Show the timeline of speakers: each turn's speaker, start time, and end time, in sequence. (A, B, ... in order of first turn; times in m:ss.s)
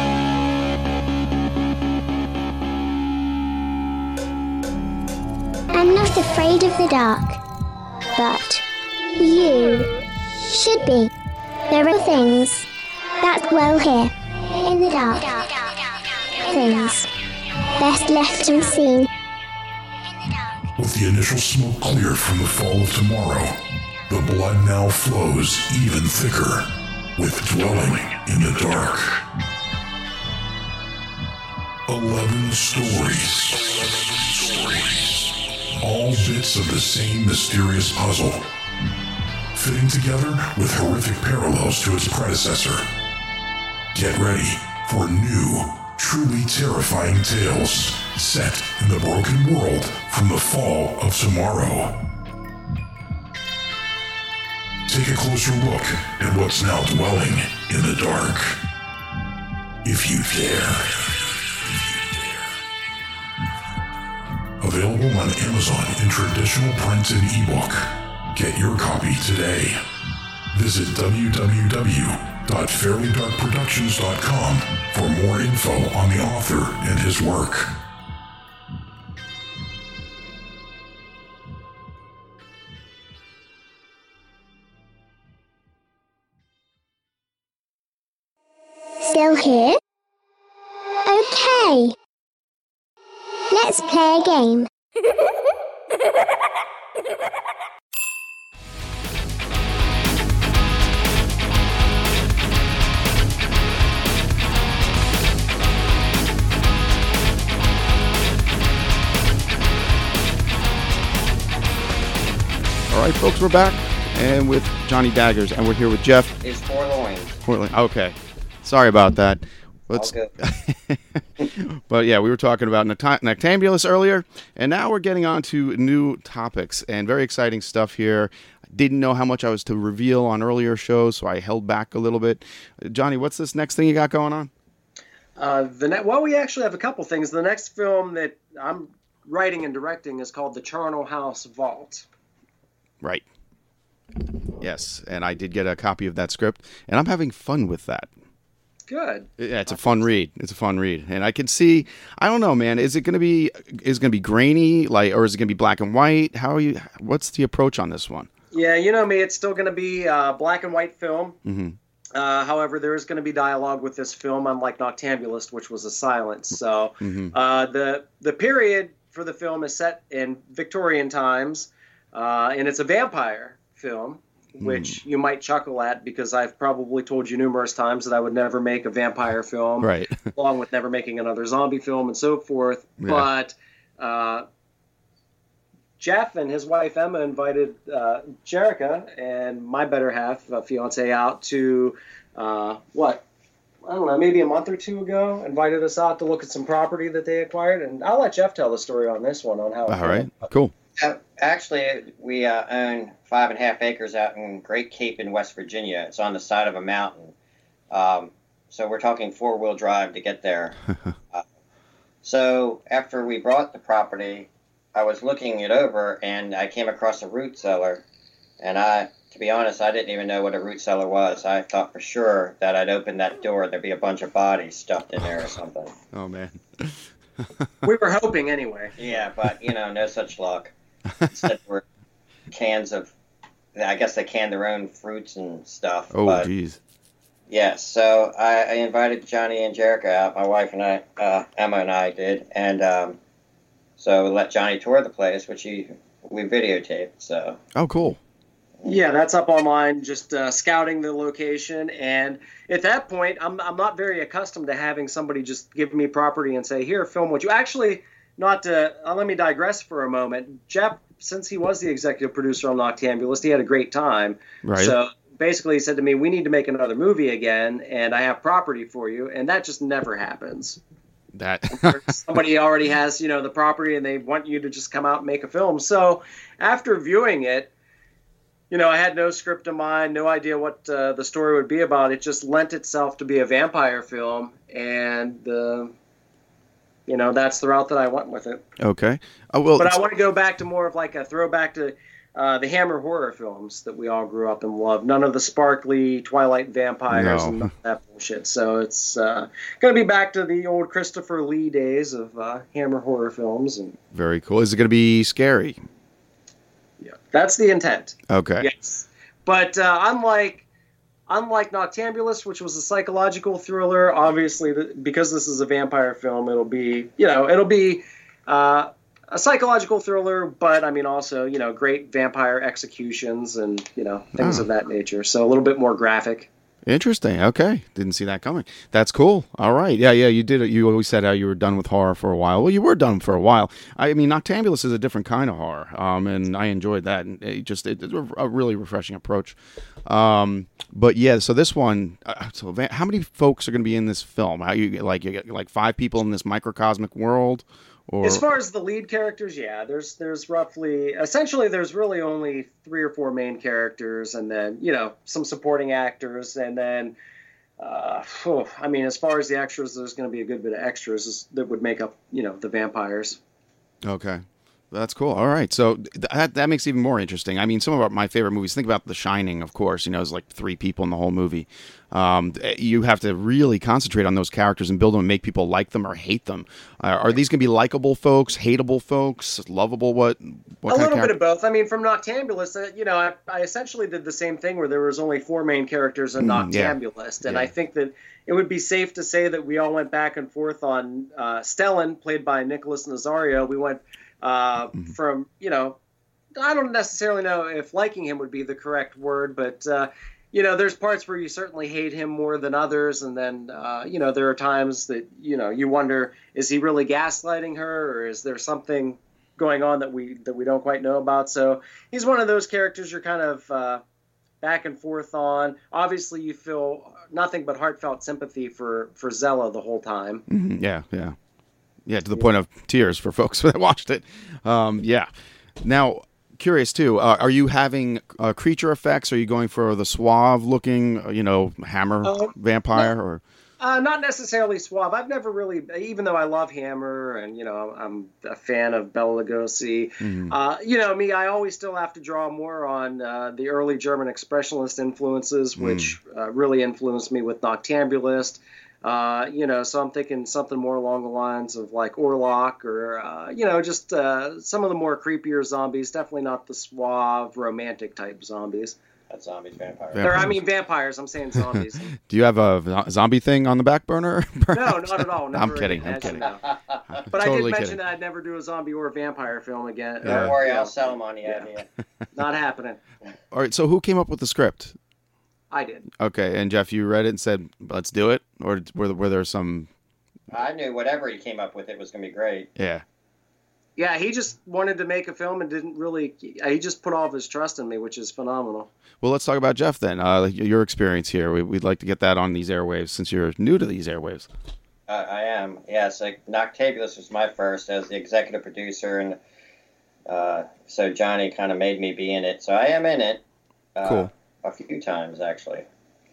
0:05.7-0:07.4 A
0:08.2-0:08.6 A
0:09.2-0:09.9 A
0:10.5-0:11.1 A
0:11.7-0:12.7 A
0:13.2-0:17.1 A
0:17.8-0:19.1 A
0:20.8-0:29.2 B
0:31.9-0:38.5 B
0:39.5-0:42.9 B
0:43.9-0:52.0 B
0:54.9-0:58.6 B
0:59.8-1:01.1 B
1:04.6-1:09.8 B
1:10.5-1:17.8 B
1:29.0-1:29.8 A
1:31.1-1:32.0 A
1:33.5-1:34.7 A
1:52.9-1:56.4 C
1:56.4-1:57.4 D
1:57.4-2:14.5 C
1:59.9-2:00.3 D
2:15.4-2:22.1 E
2:24.6-2:28.1 C
2:28.9-2:30.1 E
2:29.4-2:38.3 C
2:38.5-2:41.4 E
2:41.4-2:41.8 C
2:42.2-3:04.5 E
2:47.0-2:47.3 C
2:54.6-2:55.0 C
2:59.8-3:00.2 C
3:03.0-3:03.3 C
3:06.0-3:13.2 E
3:13.8-3:20.5 E
3:19.9-3:20.7 C
3:21.0-3:27.3 D
3:27.9-3:30.8 D
3:32.2-3:38.0 D
3:38.6-3:45.9 D
3:46.1-3:47.7 C
3:47.8-3:49.0 E
3:49.0-3:50.7 D
3:51.2-3:51.5 C
3:51.3-3:51.8 D
3:52.5-3:53.1 D
3:53.8-3:56.5 D
3:56.1-3:56.8 C
3:57.5-4:03.2 D
4:04.0-4:07.6 D
4:07.8-4:08.2 C
4:08.8-4:30.8 E
4:24.6-4:25.0 C
4:31.3-4:32.2 C
4:31.8-4:37.7 E
4:38.7-4:45.9 E
4:47.1-4:48.6 E
4:48.8-4:50.0 C
4:49.8-5:04.0 E
4:57.1-4:57.7 C
5:04.1-5:05.8 C
5:07.0-5:10.6 E
5:08.3-5:08.7 C
5:11.3-5:26.5 E
5:24.4-5:24.7 C
5:26.9-5:48.4 C
5:48.2-5:57.2 E
5:57.8-6:03.4 E
6:04.0-6:21.3 C
6:20.9-6:36.0 E
6:26.4-6:27.7 C
6:36.6-6:54.0 E
6:54.6-7:00.4 E
7:00.5-7:01.4 C
7:02.1-7:05.3 C
7:05.8-7:13.4 C
7:12.2-7:13.1 E
7:13.8-7:39.0 E
7:20.2-7:20.5 C
7:25.8-7:26.2 C
7:39.3-7:40.5 D
7:40.1-7:40.6 C
7:40.2-7:42.1 E
7:41.6-7:46.4 C
7:44.7-7:46.6 E
7:46.2-7:47.0 D
7:47.1-7:48.0 C
7:47.3-7:51.7 E
7:50.2-7:50.6 C
7:50.2-7:51.9 D
7:52.3-7:53.0 E
7:53.5-7:55.0 C
7:55.7-7:56.1 E
7:56.2-7:59.9 C
8:00.5-8:02.7 D
8:02.8-8:03.0 C
8:04.0-8:08.9 E
8:09.2-8:14.5 C
8:15.1-8:19.4 D
8:20.3-8:23.4 D
8:24.0-8:25.8 D
8:24.0-8:24.3 C